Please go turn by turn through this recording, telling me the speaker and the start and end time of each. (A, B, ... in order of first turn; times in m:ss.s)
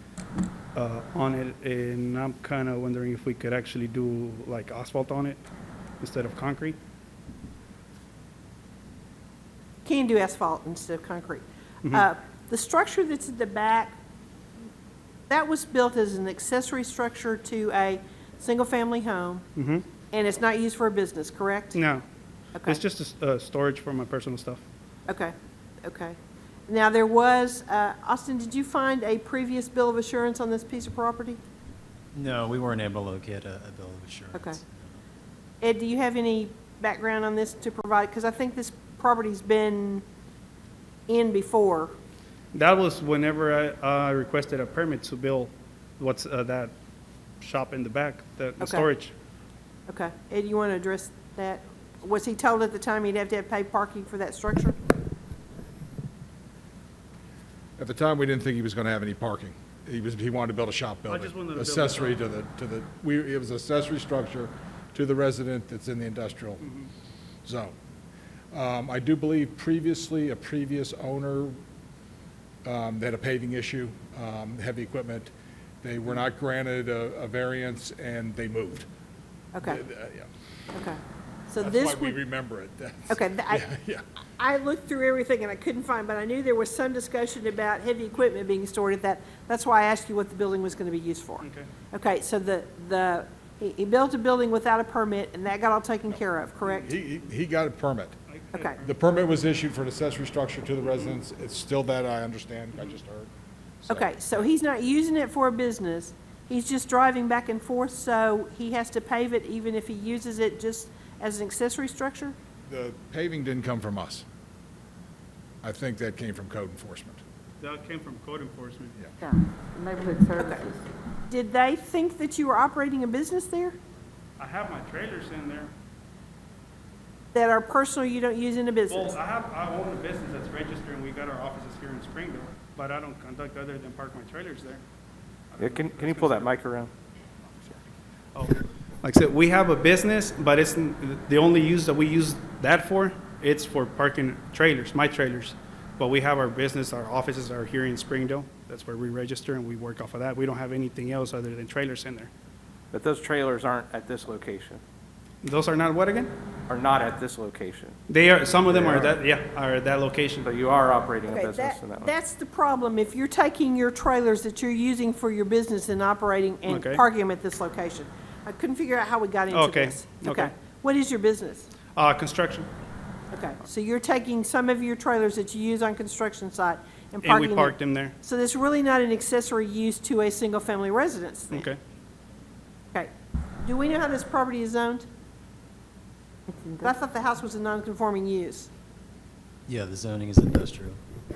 0:00.8-0:05.4 A
0:06.0-0:06.8 A
0:09.8-0:14.0 B
0:15.3-0:19.5 B
0:19.6-0:19.8 A
0:20.1-0:21.8 B
0:21.8-0:22.0 A
0:22.6-0:22.8 B
0:22.7-0:24.6 A
0:25.1-0:26.2 B
0:26.7-0:31.4 B
0:32.1-0:35.0 C
0:34.3-0:34.6 B
0:35.6-0:40.0 B
0:41.1-0:41.9 B
0:42.5-0:46.7 A
0:47.4-0:49.1 A
0:48.6-0:48.9 B
0:49.9-0:54.8 B
0:57.8-1:06.6 D
1:01.1-1:02.2 A
1:06.6-1:06.9 A
1:07.4-1:07.7 D
1:08.5-1:11.6 D
1:12.6-1:18.9 D
1:19.6-1:19.8 B
1:19.6-1:20.3 D
1:20.7-1:22.2 B
1:21.6-1:24.0 D
1:23.1-1:23.6 B
1:24.4-1:36.9 B
1:31.4-1:31.7 A
1:36.1-1:38.2 D
1:38.3-1:39.0 A
1:38.8-1:43.3 D
1:40.8-1:41.1 A
1:43.8-1:44.5 D
1:43.9-1:52.3 B
1:52.6-1:54.2 D
1:55.6-1:57.2 D
1:57.6-1:59.0 A
1:59.2-2:00.9 E
2:00.4-2:00.7 B
2:01.3-2:03.8 B
2:04.4-2:05.7 A
2:07.3-2:09.2 B
2:08.9-2:14.8 A
2:15.5-2:16.5 A
2:15.6-2:16.9 F
2:18.3-2:32.3 A
2:32.9-2:34.8 F
2:35.4-2:36.3 A
2:36.7-2:38.0 F
2:38.1-2:40.5 A
2:38.7-2:39.2 F
2:40.4-2:42.1 F
2:41.3-2:51.7 B
2:46.7-2:47.0 A
2:49.5-2:50.5 A
2:51.9-2:52.7 A
2:53.3-3:01.7 B
2:57.2-2:58.2 A
3:01.5-3:01.8 A
3:03.6-3:05.1 B
3:06.5-3:06.8 E
3:06.8-3:08.7 B
3:09.7-3:11.0 C